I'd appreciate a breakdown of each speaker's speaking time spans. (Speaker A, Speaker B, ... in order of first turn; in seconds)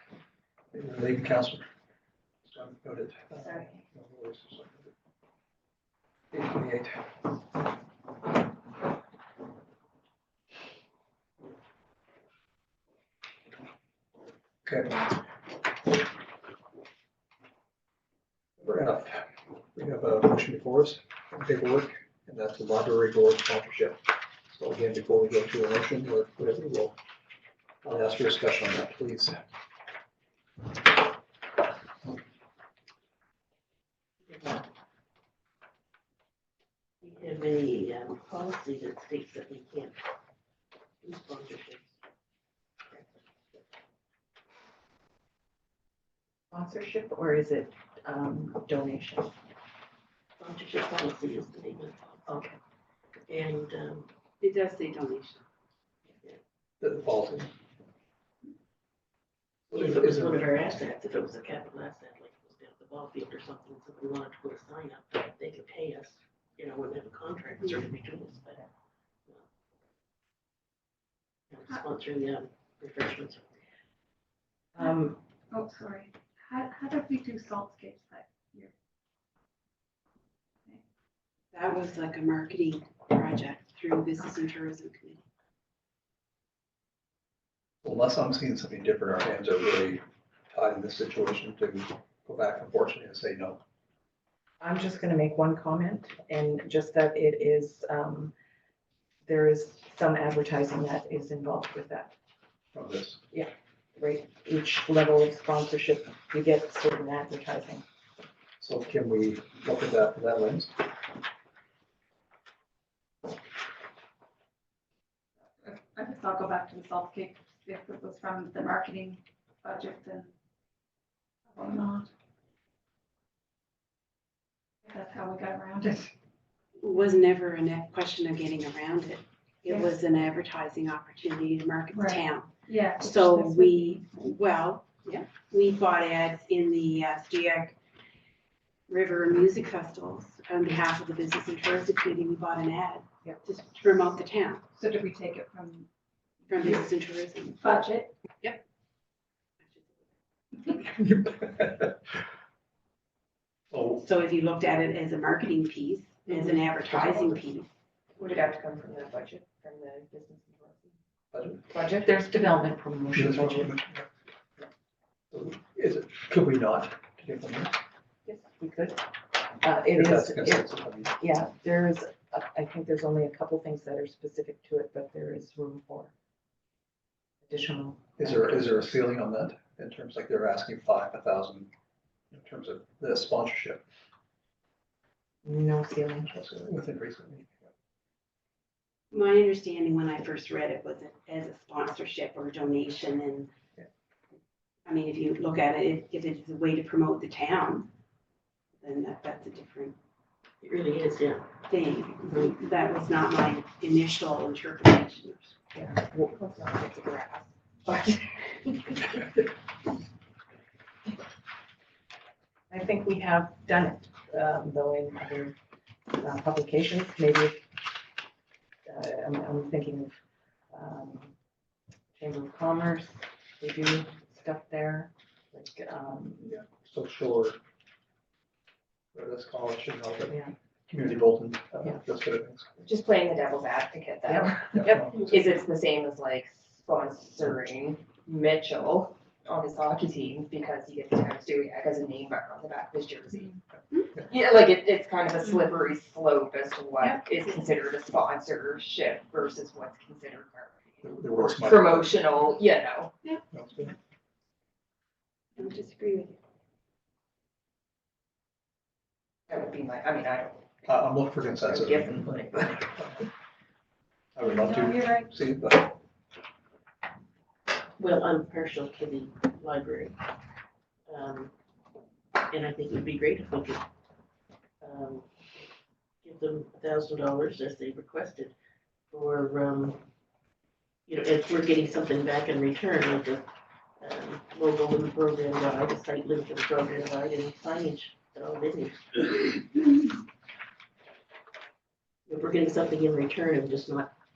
Speaker A: 0.7-1.7, 2.5-4.9, 6.3-7.0, 14.7-15.2, 18.6-27.0, 27.8-29.4, 56.8-57.5, 59.7-60.5, 87.8-93.6, 102.7-103.2, 108.6-110.8, 151.0-152.0, 153.7-154.0, 161.3-161.7, 163.1-164.1, 165.3-167.8, 170.0-171.1, 178.2-181.7, 182.3-183.8, 186.3-187.7, 226.4-227.6, 229.1-230.4, 230.9-232.7, 234.8-235.3, 251.0-252.3, 253.5-253.9, 260.9-263.3, 264.4-265.9
Speaker B: 34.3-34.6, 37.0-40.0, 41.0-41.9, 50.4-52.4, 53.3-54.1, 59.7-68.6, 71.5-73.5, 200.6-201.5, 268.0-270.2, 271.1-271.5, 272.5-273.9, 274.8-275.3, 276.2-278.5, 279.1-280.0, 281.1-283.5, 284.0-289.6, 292.3-294.1
Speaker C: 46.5-49.3, 52.3-52.6, 74.8-75.1, 94.6-98.3, 99.3-102.1, 103.3-107.8, 161.7-163.7, 168.2-169.1, 169.6-176.1, 177.4-178.7, 185.4-186.4, 205.7-209.4, 212.7-215.6, 216.2-217.7, 218.8-220.2, 220.7-221.3, 222.2-226.5, 230.3-230.6, 234.2-235.4
Speaker D: 54.4-55.4, 81.5-85.2, 126.8-137.8, 138.9-144.7, 146.5-147.8, 149.6-150.1, 154.0-157.7, 189.1-193.5, 194.9-197.9, 198.8-200.0, 201.7-205.6, 247.0-247.5
Speaker E: 75.5-78.7, 115.6-120.3, 121.5-122.1, 124.8-126.1, 131.9-134.3, 144.8-145.9, 147.6-148.1
Speaker F: 158.2-161.0, 232.8-243.6, 244.3-253.1, 255.6-256.4, 259.5-260.8, 261.6-262.8, 264.5-265.2